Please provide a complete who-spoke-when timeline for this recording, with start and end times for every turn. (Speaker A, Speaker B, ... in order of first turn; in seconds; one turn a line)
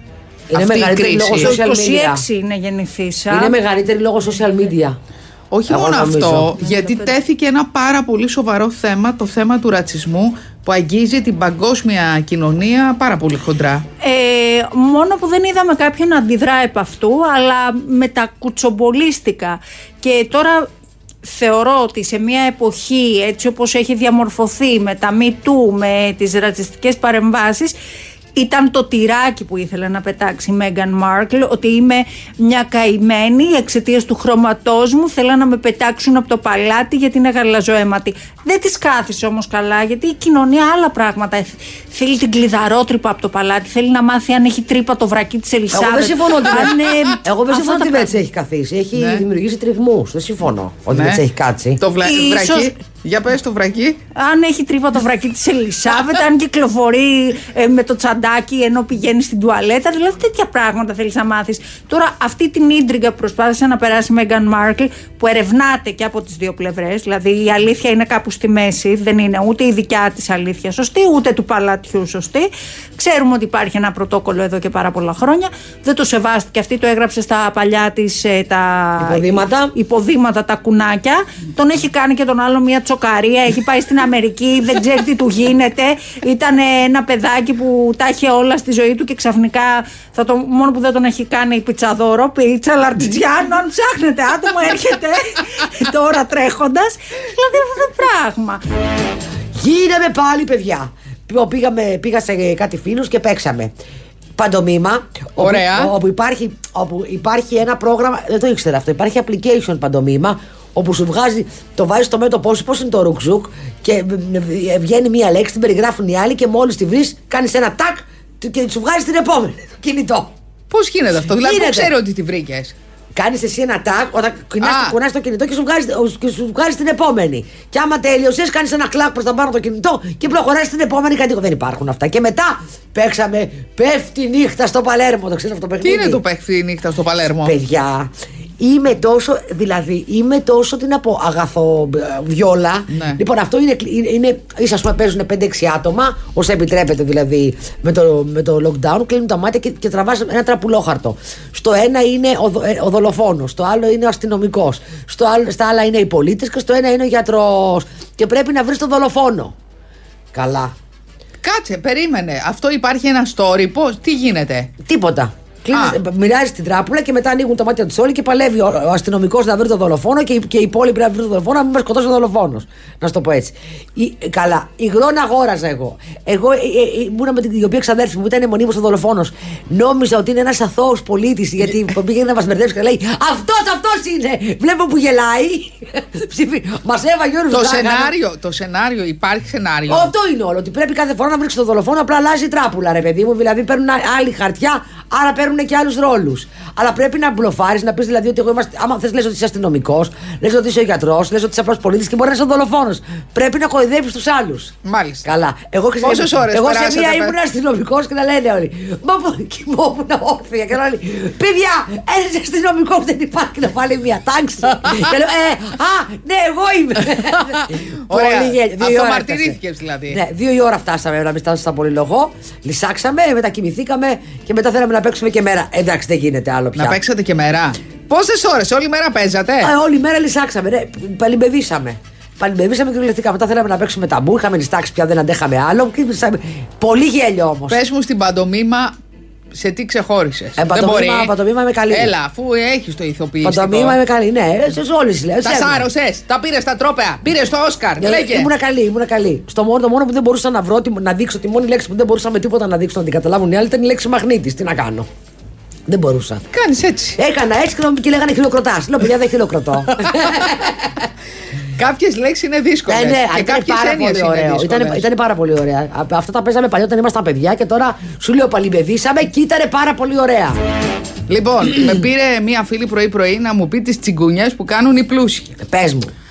Speaker A: 0.5-2.2
Speaker B: 0.5-1.5
Speaker C: 1.4-3.6
Speaker A: 3.3-5.0
Speaker B: 5.5-13.8
Speaker A: 5.7-6.5
Speaker C: 6.6-7.1
Speaker C: 14.0-20.7
Speaker C: 21.2-27.8
Speaker C: 28.4-48.1
Speaker A: 45.7-51.8
Speaker B: 49.0-49.2
Speaker B: 50.9-51.2
Speaker B: 51.8-54.0
Speaker C: 52.0-52.7
Speaker C: 54.1-98.6
Speaker A: 79.0-79.7
Speaker A: 99.5-103.7
Speaker A: 104.4-120.3
Speaker B: 105.4-105.9
Speaker B: 120.7-122.8
Speaker A: 121.4-121.9
Speaker A: 123.2-136.2
Speaker B: 124.6-125.0
Speaker B: 135.8-137.6
Speaker A: 137.4-159.6
Speaker B: 142.9-143.2
Speaker A: 160.3-160.7
Speaker B: 161.4-164.7
Speaker A: 164.8-188.1
Speaker B: 165.7-166.0
Speaker B: 187.5-190.1
Speaker A: 189.9-204.7
Speaker B: 204.8-205.3
Speaker A: 205.2-219.6
Speaker B: 206.0-207.3
Speaker B: 217.3-220.2
Speaker A: 220.1-227.0
Speaker B: 226.8-229.7
Speaker A: 229.6-237.8
Speaker B: 237.7-238.9
Speaker B: 239.5-241.3
Speaker A: 240.6-242.1
Speaker B: 241.9-244.0
Speaker A: 243.4-245.9
Speaker B: 245.4-248.5
Speaker A: 248.0-255.1
Speaker A: 255.9-256.5
Speaker B: 256.5-257.2
Speaker A: 257.2-261.0
Speaker B: 260.1-260.5
Speaker B: 261.8-265.1
Speaker A: 262.9-270.6
Speaker B: 271.3-275.6
Speaker A: 275.6-276.1